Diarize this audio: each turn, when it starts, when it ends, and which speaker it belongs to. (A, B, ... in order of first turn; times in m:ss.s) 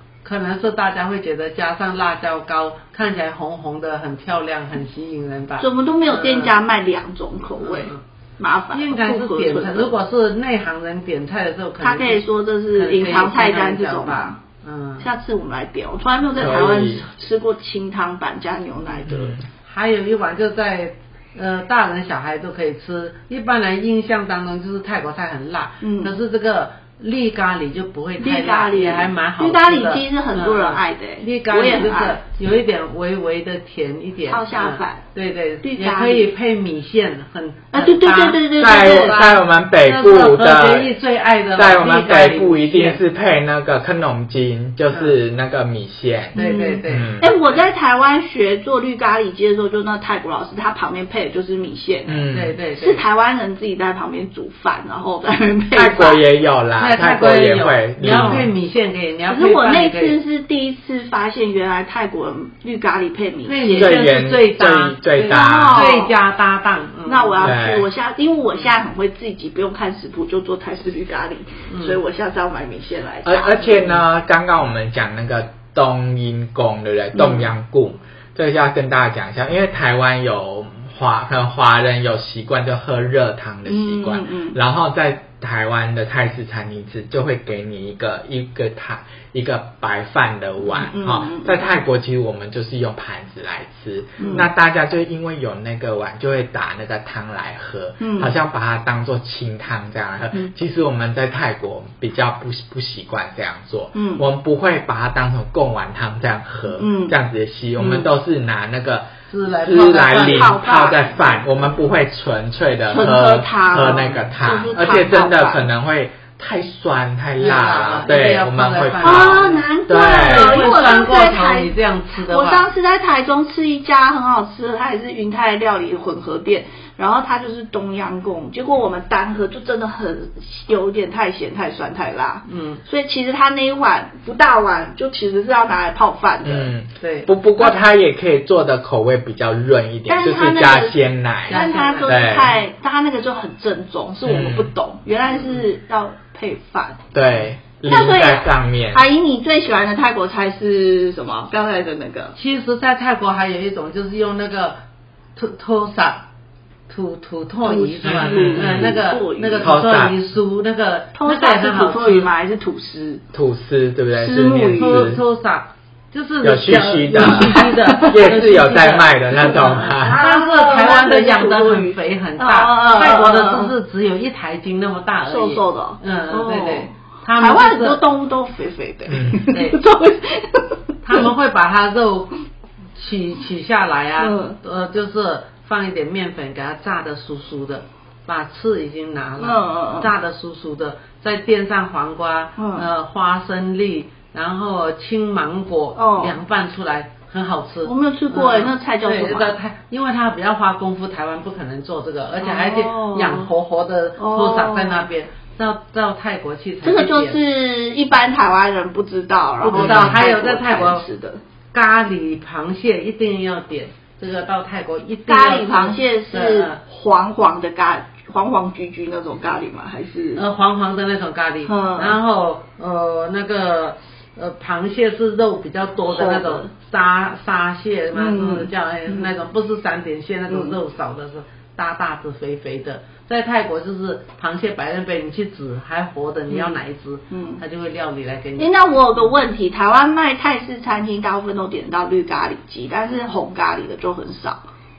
0:00.2-0:06.5 A
0:05.6-0:09.9 B
0:07.6-0:08.0 A
0:08.7-0:15.0 A
0:11.8-0:14.4 B
0:15.0-0:19.4 B
0:16.3-0:17.0 C
0:19.1-0:19.4 C
0:19.6-0:43.0 A
0:25.8-0:26.1 B
0:28.2-0:32.2 B
0:34.3-0:35.0 B
0:35.6-0:36.3 B
0:37.7-0:39.2 B
0:38.6-0:41.0 C
0:41.6-0:46.4 C
0:46.3-0:47.6 A
0:46.3-0:56.2 B
0:46.9-0:47.3 C
0:52.1-0:52.6 C
0:52.3-0:53.0 A
0:55.7-0:58.5 C
0:56.8-1:00.2 A
0:58.0-0:58.5 B
0:59.3-1:04.0 B
1:03.5-1:07.6 A
1:03.8-1:05.9 C
1:05.2-1:06.1 B
1:07.0-1:13.9 B
1:07.4-1:07.9 C
1:11.7-1:12.0 A
1:13.2-1:49.1 C
1:17.2-1:17.5 B
1:23.6-1:24.6 B
1:30.8-1:31.6 B
1:34.2-1:34.5 B
1:38.0-1:38.3 B
1:43.9-1:44.2 B
1:46.8-1:47.2 B
1:49.3-1:50.6 A
1:49.6-2:00.7 C
1:50.1-1:51.4 B
1:52.9-1:55.7 B
1:53.8-1:54.2 A
1:57.4-1:59.6 A
1:59.0-2:16.7 B
2:00.2-2:02.7 A
2:12.5-2:12.8 A
2:16.4-2:22.5 C
2:17.0-2:17.3 A
2:20.1-2:27.0 B
2:21.5-2:22.4 A
2:24.2-2:24.7 C
2:25.3-2:25.6 A
2:27.1-2:29.0 C
2:27.8-2:32.3 B
2:32.3-2:34.8 A
2:35.4-2:36.2 A
2:36.9-2:42.3 A
2:37.6-2:39.7 B
2:38.1-2:39.0 C
2:39.6-2:40.2 C
2:41.1-2:43.2 B
2:43.3-2:45.2 C
2:44.1-2:45.1 B
2:44.7-2:58.0 A
2:46.4-2:50.2 C
2:47.4-2:48.2 B
2:49.4-2:53.7 B
2:55.3-3:01.3 B
2:59.1-2:59.4 C
2:59.5-2:59.8 A
3:01.0-3:02.3 A
3:02.9-3:27.4 A
3:04.2-3:04.6 B
3:09.4-3:10.1 B
3:12.6-3:12.9 B
3:16.0-3:16.4 B
3:17.8-3:19.5 B
3:22.4-3:23.5 B
3:24.2-3:25.0 B
3:26.8-3:31.4 B
3:29.6-3:31.0 A
3:29.7-3:30.2 C
3:31.7-3:36.8 A
3:35.3-3:40.4 B
3:40.4-3:59.3 A
3:41.6-3:42.2 B
3:46.1-3:46.7 B
3:48.1-3:49.3 B
3:50.5-3:50.8 B
3:56.5-3:56.8 B
3:57.3-3:57.6 B
3:58.6-4:04.6 B